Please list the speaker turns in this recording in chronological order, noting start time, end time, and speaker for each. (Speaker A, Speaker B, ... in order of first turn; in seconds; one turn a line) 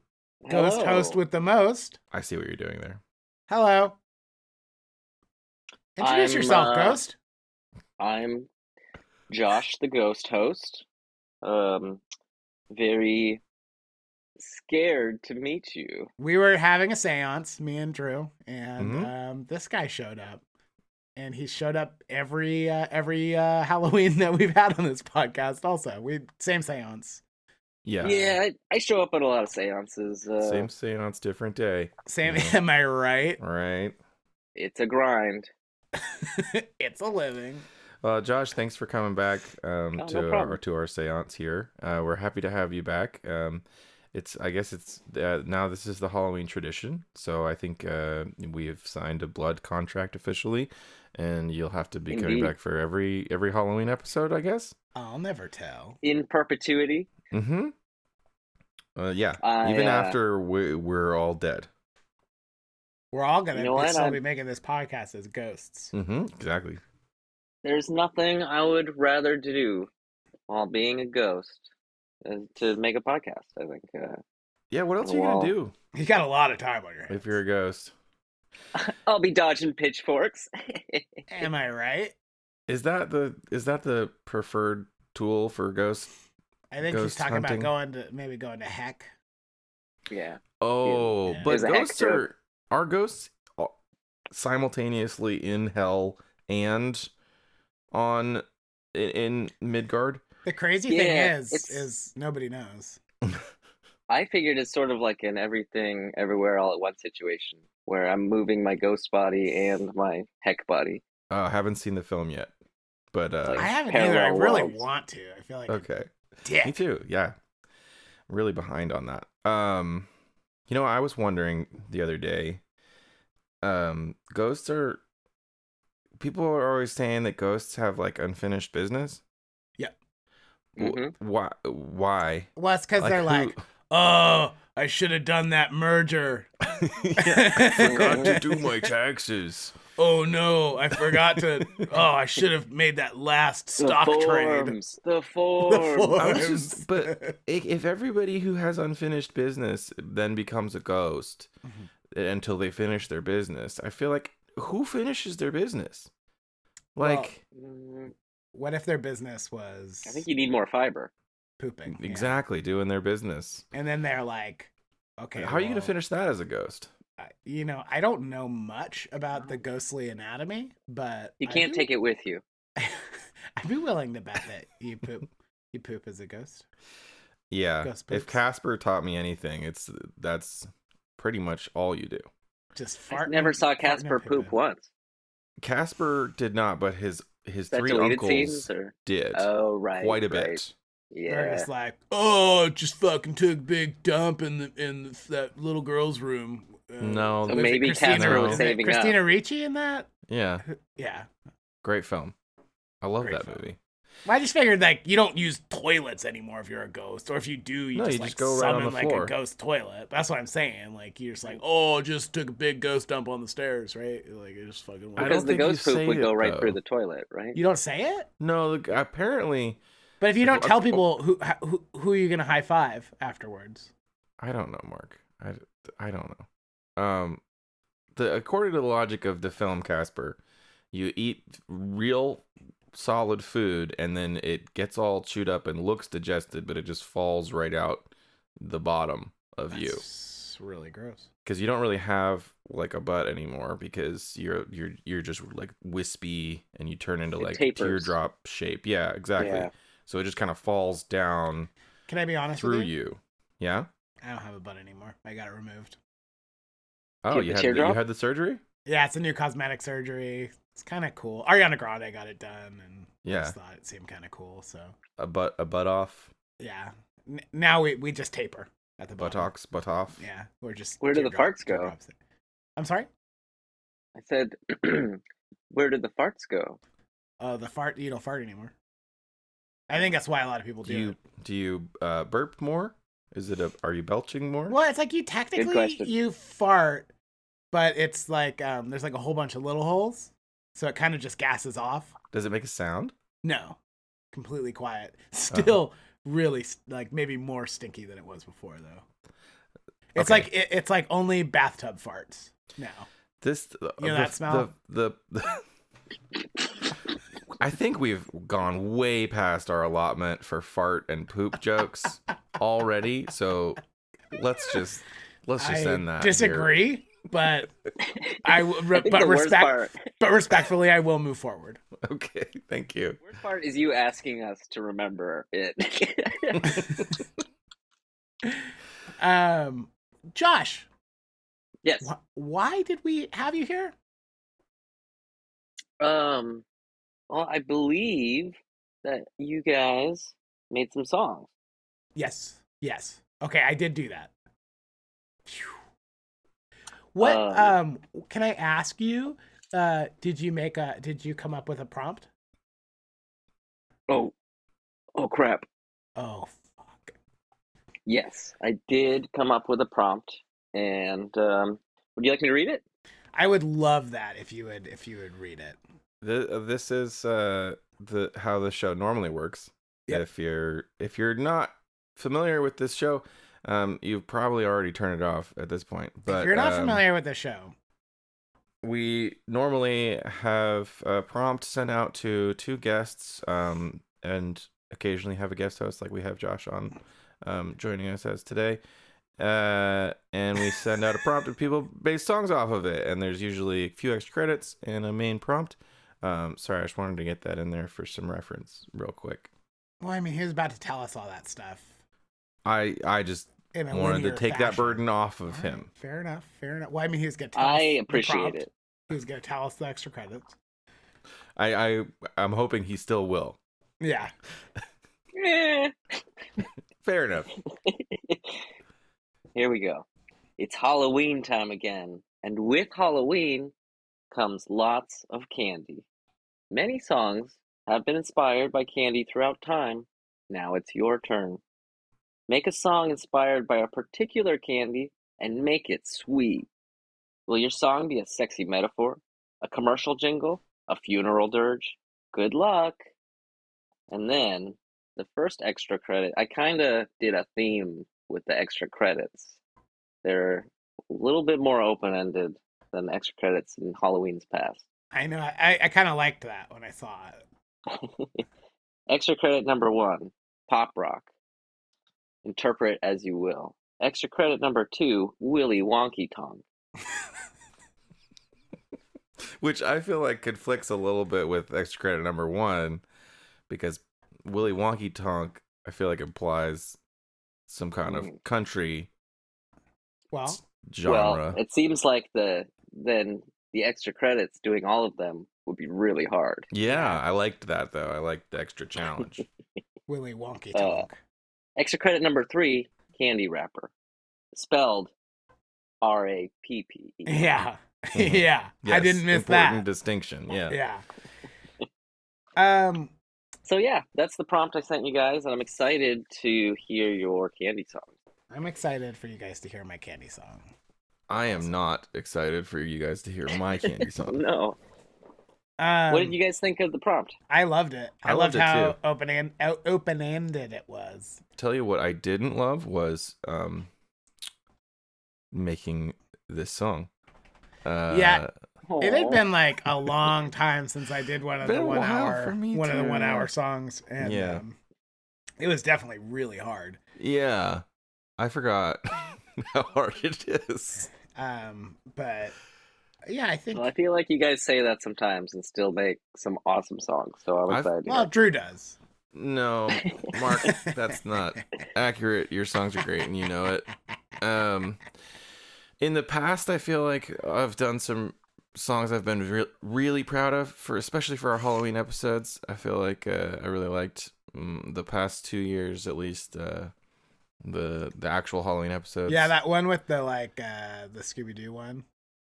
Speaker A: 0.4-1.2
Speaker B: 0.5-2.0
Speaker C: 2.1-3.0
Speaker B: 3.5-4.0
Speaker B: 6.0-7.2
Speaker A: 6.0-7.0
Speaker A: 8.0-8.5
Speaker A: 9.3-10.8
Speaker A: 11.4-12.0
Speaker A: 12.7-13.4
Speaker A: 14.4-16.1
Speaker B: 16.2-20.4
Speaker C: 18.8-19.1
Speaker B: 21.1-27.2
Speaker C: 27.8-28.4
Speaker A: 28.0-30.7
Speaker C: 30.4-32.6
Speaker B: 32.0-33.4
Speaker C: 33.4-34.0
Speaker A: 34.5-35.5
Speaker B: 36.2-37.6
Speaker C: 38.0-54.7
Speaker A: 40.0-40.6
Speaker A: 52.1-52.5
Speaker B: 54.9-56.0
Speaker A: 56.0-57.1
Speaker C: 57.3-57.7
Speaker C: 59.0-61.7
Speaker A: 59.4-60.2
Speaker B: 63.1-65.9
Speaker A: 63.5-64.2
Speaker C: 65.9-66.8
Speaker A: 67.6-69.9
Speaker A: 70.5-71.6
Speaker A: 72.2-74.2
Speaker C: 74.7-75.7
Speaker A: 75.0-75.5
Speaker B: 75.9-77.4
Speaker C: 77.1-77.9
Speaker A: 78.7-81.4
Speaker B: 81.3-82.1
Speaker C: 82.7-86.1
Speaker B: 86.7-89.1
Speaker C: 86.8-87.7
Speaker A: 90.1-92.2
Speaker C: 90.6-93.7
Speaker C: 94.3-97.1
Speaker C: 97.9-100.2
Speaker B: 100.4-103.0
Speaker A: 100.9-101.9
Speaker A: 104.1-111.0
Speaker C: 111.3-112.5
Speaker C: 113.1-113.7
Speaker A: 113.4-114.8
Speaker B: 113.6-115.8
Speaker C: 115.7-116.1
Speaker B: 116.4-116.8
Speaker C: 116.6-117.3
Speaker C: 118.3-120.1
Speaker C: 120.7-122.6
Speaker C: 123.6-125.0
Speaker C: 126.2-129.2
Speaker A: 130.8-131.1
Speaker C: 130.8-133.6
Speaker B: 132.6-136.5
Speaker C: 136.7-139.8
Speaker B: 137.1-138.9
Speaker A: 137.6-138.4
Speaker B: 140.0-144.8
Speaker C: 140.9-141.9
Speaker A: 143.8-146.2
Speaker B: 145.6-147.4
Speaker C: 146.2-151.5
Speaker C: 152.1-156.1
Speaker C: 156.9-157.4
Speaker B: 157.0-157.3
Speaker A: 157.5-158.1
Speaker B: 158.5-160.2
Speaker A: 160.0-161.1
Speaker B: 161.6-162.3
Speaker C: 161.9-163.6
Speaker B: 163.7-165.9
Speaker C: 165.4-166.9
Speaker B: 167.2-171.9
Speaker A: 171.4-172.4
Speaker B: 172.8-176.7
Speaker C: 177.5-182.2
Speaker B: 177.8-178.4
Speaker B: 182.8-184.5
Speaker A: 183.1-184.9
Speaker C: 185.6-189.5
Speaker A: 187.7-190.6
Speaker C: 190.0-190.7
Speaker A: 191.1-191.7
Speaker B: 191.3-200.1
Speaker C: 197.0-198.6
Speaker A: 197.4-199.2
Speaker C: 200.3-200.6
Speaker B: 200.7-201.3
Speaker C: 201.8-202.3
Speaker C: 203.0-203.8
Speaker B: 203.2-203.6
Speaker B: 204.2-215.6
Speaker C: 207.9-209.3
Speaker C: 215.2-216.8
Speaker A: 215.2-217.6
Speaker B: 217.5-218.3
Speaker C: 218.4-219.8
Speaker B: 220.2-223.9
Speaker C: 220.4-221.0
Speaker C: 224.4-226.4
Speaker C: 227.0-227.4
Speaker C: 228.2-230.4
Speaker C: 230.9-240.0
Speaker B: 239.7-241.3
Speaker C: 241.4-251.7
Speaker A: 247.4-248.1
Speaker A: 249.4-249.7
Speaker B: 252.1-252.9
Speaker C: 252.6-253.9
Speaker B: 254.2-256.0
Speaker C: 257.2-258.6
Speaker A: 257.3-258.0
Speaker B: 258.9-264.9
Speaker C: 263.2-263.6
Speaker C: 265.2-266.3
Speaker B: 266.6-269.5
Speaker C: 269.2-270.2
Speaker B: 270.2-272.1
Speaker A: 271.0-271.9
Speaker B: 272.8-273.1
Speaker A: 274.1-276.8
Speaker B: 277.4-278.7
Speaker B: 279.9-281.2
Speaker C: 280.8-284.8
Speaker B: 284.7-287.1
Speaker A: 285.6-286.1
Speaker B: 287.7-292.1
Speaker C: 292.3-293.1
Speaker B: 293.4-293.8
Speaker B: 294.3-299.0
Speaker C: 295.5-295.8
Speaker B: 300.1-303.1
Speaker C: 300.1-300.5
Speaker C: 303.4-305.6
Speaker B: 304.0-304.7
Speaker C: 307.6-313.8
Speaker C: 314.3-316.7
Speaker B: 315.6-317.7
Speaker A: 318.1-319.9
Speaker B: 318.4-321.8
Speaker C: 322.0-323.2
Speaker A: 323.2-326.8
Speaker B: 329.2-330.9
Speaker A: 331.8-332.1
Speaker B: 332.0-333.9
Speaker A: 336.0-336.6
Speaker A: 337.3-341.5
Speaker B: 342.1-344.3
Speaker B: 345.5-345.8
Speaker B: 347.1-352.3
Speaker A: 347.2-347.8
Speaker A: 354.1-354.3
Speaker A: 355.1-355.6
Speaker B: 356.2-357.1
Speaker A: 358.1-362.8
Speaker B: 363.3-365.8
Speaker C: 366.2-377.0
Speaker B: 376.3-377.7
Speaker C: 378.8-388.8
Speaker C: 389.4-399.5
Speaker B: 400.0-401.9
Speaker C: 402.6-405.9
Speaker B: 403.7-410.5
Speaker A: 407.5-408.7
Speaker C: 411.6-413.6
Speaker B: 414.0-414.3
Speaker A: 415.3-415.9
Speaker C: 417.0-417.5
Speaker A: 417.9-418.6
Speaker A: 419.5-420.0
Speaker A: 420.6-423.7
Speaker A: 424.3-426.0
Speaker A: 426.7-431.6
Speaker A: 432.5-436.7
Speaker A: 437.5-443.0
Speaker A: 444.1-449.6
Speaker A: 450.2-454.8
Speaker B: 455.1-457.4
Speaker A: 457.9-458.4
Speaker A: 459.1-461.3
Speaker A: 462.4-466.6
Speaker C: 469.4-473.0
Speaker C: 473.7-477.0
Speaker C: 477.7-479.1
Speaker A: 478.0-478.3
Speaker B: 480.3-480.6
Speaker C: 480.5-481.6
Speaker A: 481.0-486.7
Speaker C: 486.7-489.4
Speaker B: 486.9-487.2
Speaker B: 490.1-491.2
Speaker A: 490.7-491.1
Speaker A: 491.8-493.9
Speaker A: 494.5-495.1
Speaker A: 496.0-497.6
Speaker B: 497.2-499.8
Speaker C: 498.1-500.8
Speaker B: 500.7-501.0
Speaker B: 502.6-503.1
Speaker A: 503.6-508.1
Speaker B: 508.5-510.7
Speaker C: 511.3-514.4
Speaker A: 514.1-514.8
Speaker B: 515.8-516.4
Speaker A: 516.1-517.3
Speaker B: 517.5-521.4
Speaker C: 518.2-519.0
Speaker C: 521.6-523.9
Speaker C: 525.5-527.1
Speaker C: 527.8-528.5
Speaker B: 528.1-528.4
Speaker A: 528.8-529.4
Speaker B: 529.0-534.7
Speaker C: 531.6-533.5
Speaker C: 534.2-534.6
Speaker B: 535.6-537.0
Speaker C: 537.2-537.8
Speaker C: 538.4-541.1
Speaker B: 541.3-542.5
Speaker B: 543.2-543.9
Speaker A: 543.7-548.3
Speaker B: 548.0-549.0
Speaker C: 549.3-553.9
Speaker A: 550.1-550.4
Speaker C: 554.4-555.0
Speaker C: 556.0-566.9
Speaker C: 567.6-569.5
Speaker B: 569.3-572.0